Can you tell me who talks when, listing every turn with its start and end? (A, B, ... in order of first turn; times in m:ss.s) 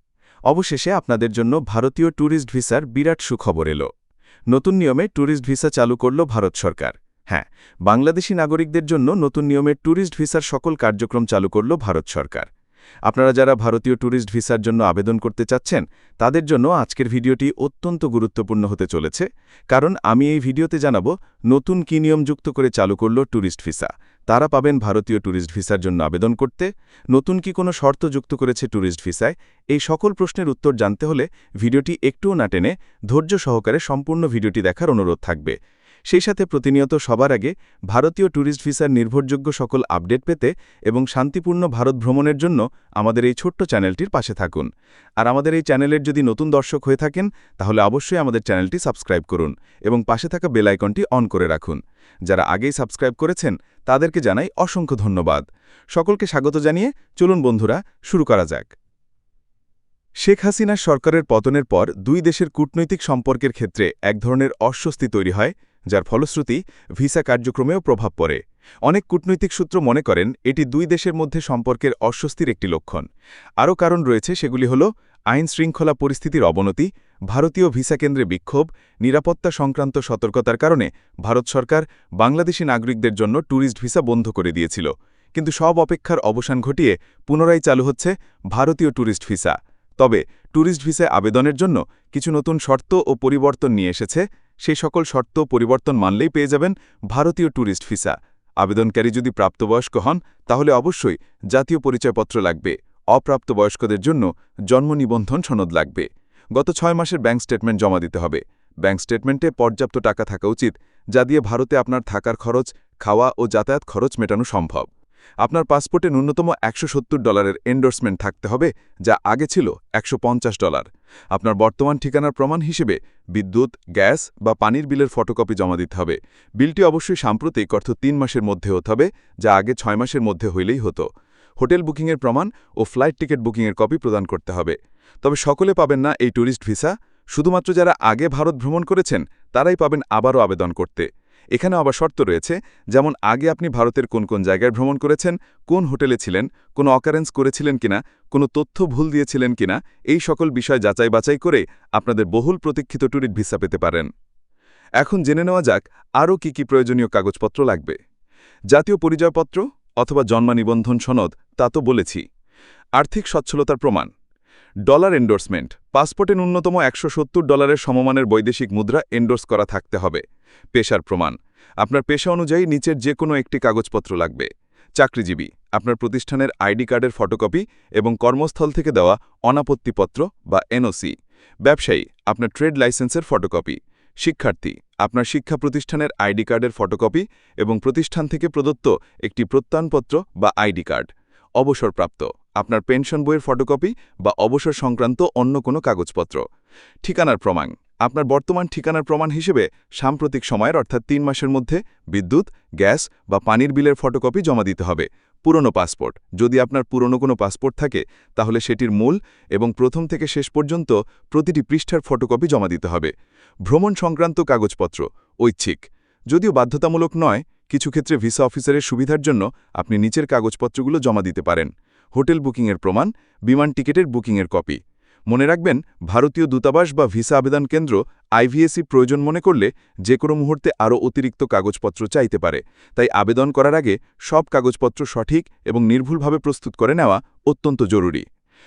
0:00.5-0:03.9 A
0:04.5-0:12.5 A
0:13.1-0:35.6 A
0:36.1-0:55.4 A
0:56.0-0:58.7 A
1:00.2-1:13.1 A
1:13.6-1:54.9 A
1:55.4-2:34.1 A
2:35.0-2:38.0 A
2:38.7-2:42.2 A
2:43.0-2:44.1 A
2:44.8-3:16.4 A
3:17.0-3:33.1 A
3:33.7-3:58.2 A